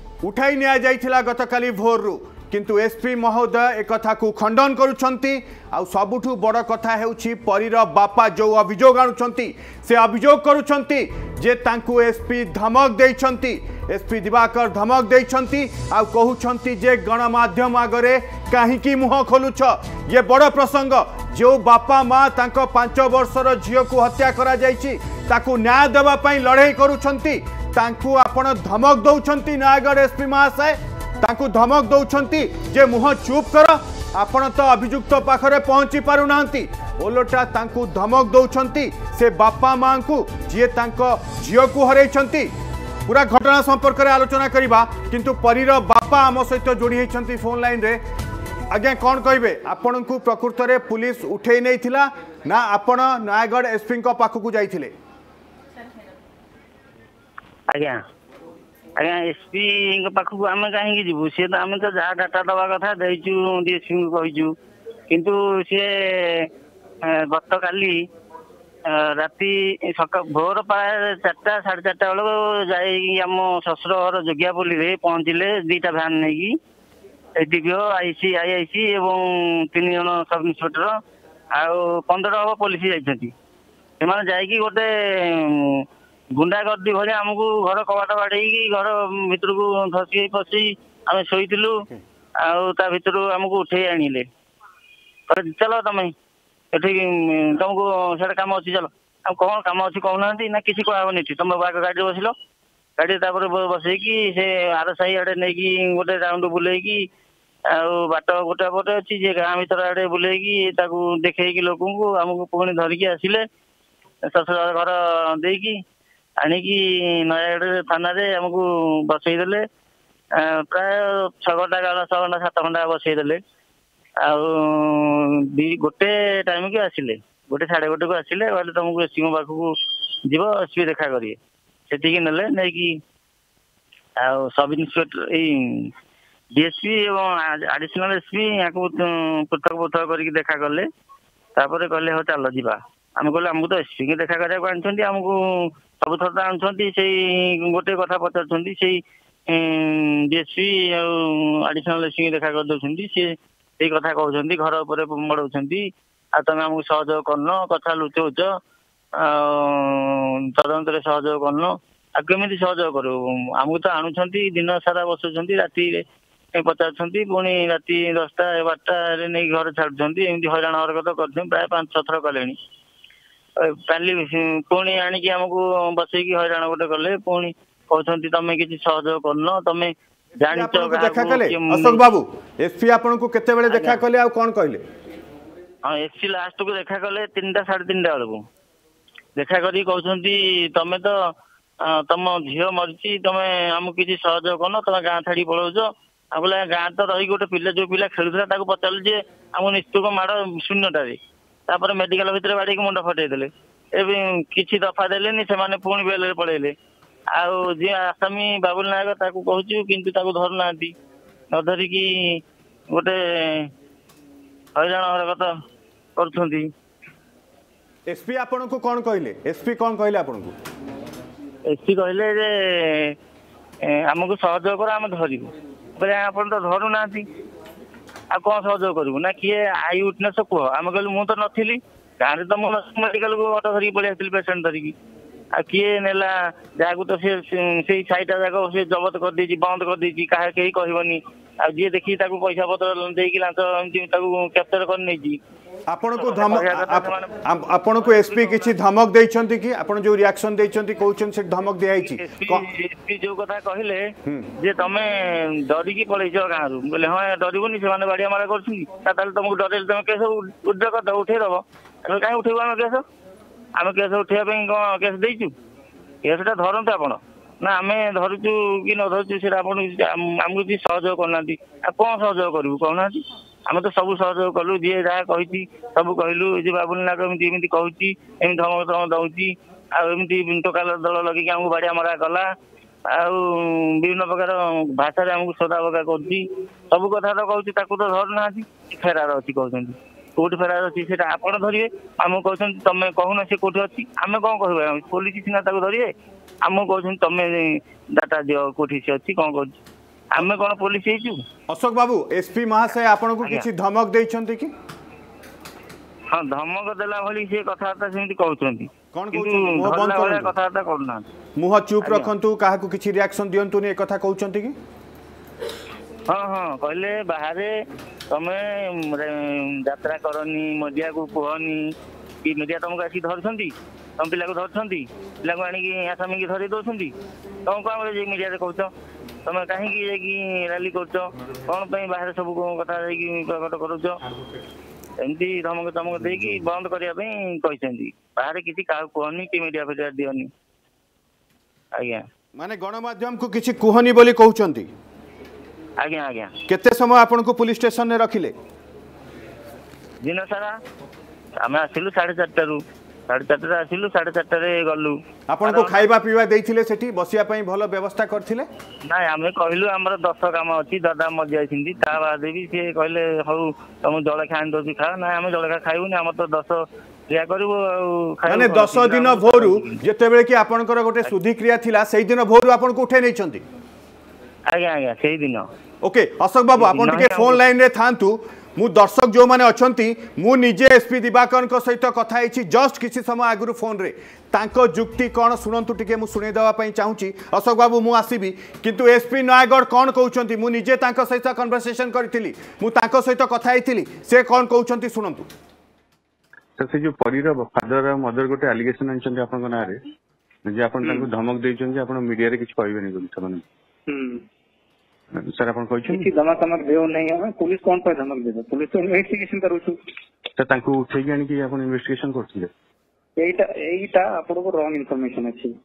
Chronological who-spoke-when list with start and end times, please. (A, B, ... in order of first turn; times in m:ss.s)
0:00.2-0:42.5 A
0:43.0-0:48.0 A
0:48.7-0:54.9 A
0:57.7-0:58.0 B
0:59.0-1:04.5 B
1:05.1-1:06.5 B
1:07.0-1:08.0 B
1:08.9-1:16.6 B
1:17.4-1:21.0 B
1:21.6-1:23.3 B
1:24.0-1:25.8 B
1:26.4-1:31.8 B
1:32.4-1:34.3 B
1:35.3-1:36.1 B
1:36.7-1:42.3 B
1:43.0-1:47.0 B
1:47.7-1:53.4 B
1:54.3-1:55.8 B
1:56.4-1:59.6 B
2:00.3-2:03.4 B
2:04.2-2:09.7 B
2:10.3-2:11.4 B
2:11.9-2:13.0 B
2:14.2-2:15.9 B
2:16.6-2:20.9 B
2:21.6-2:38.5 B
2:39.2-2:52.6 B
2:53.6-3:02.0 B
3:00.5-3:04.8 A
3:03.7-3:04.0 B
3:05.8-3:08.4 B
3:09.4-3:11.3 B
3:11.8-3:21.2 B
3:21.7-3:26.7 B
3:27.3-3:30.9 B
3:31.5-3:32.4 B
3:32.9-3:33.7 B
3:34.8-3:35.5 B
3:36.2-3:36.7 B
3:38.1-3:40.5 A
3:41.7-3:43.2 B
3:43.8-3:47.2 B
3:48.3-3:54.9 B
3:55.5-4:05.4 B
4:05.9-4:12.6 A
4:06.2-4:07.3 B
4:08.0-4:08.6 B
4:12.0-4:23.0 B
4:14.2-4:14.5 A
4:23.8-4:25.5 B
4:26.2-4:42.5 B
4:43.1-4:56.1 B
4:56.6-4:59.8 B
5:00.3-5:01.4 B
5:01.7-5:04.7 A
5:06.3-5:11.2 B
5:09.1-5:10.6 A
5:11.6-5:14.8 A
5:12.0-5:12.3 B
5:16.3-5:17.7 B
5:18.3-5:27.1 B
5:27.6-5:28.9 B
5:29.4-5:34.2 B
5:35.2-5:40.5 B
5:42.0-5:42.2 B
5:42.6-5:44.9 A
5:46.0-5:46.5 B
5:46.7-5:48.5 A
5:50.2-5:50.8 B
5:51.6-5:56.0 B
5:55.5-5:58.7 A
5:59.1-6:09.9 B
6:08.4-6:13.6 A
6:14.7-6:15.7 B
6:16.0-6:35.5 A
6:16.8-6:17.6 B
6:36.8-6:40.0 C
6:40.6-6:43.6 C
6:41.0-6:41.3 D
6:44.1-6:44.4 D
6:45.3-6:46.3 C
6:46.1-6:50.0 D
6:50.6-6:52.7 C
6:53.4-6:55.8 D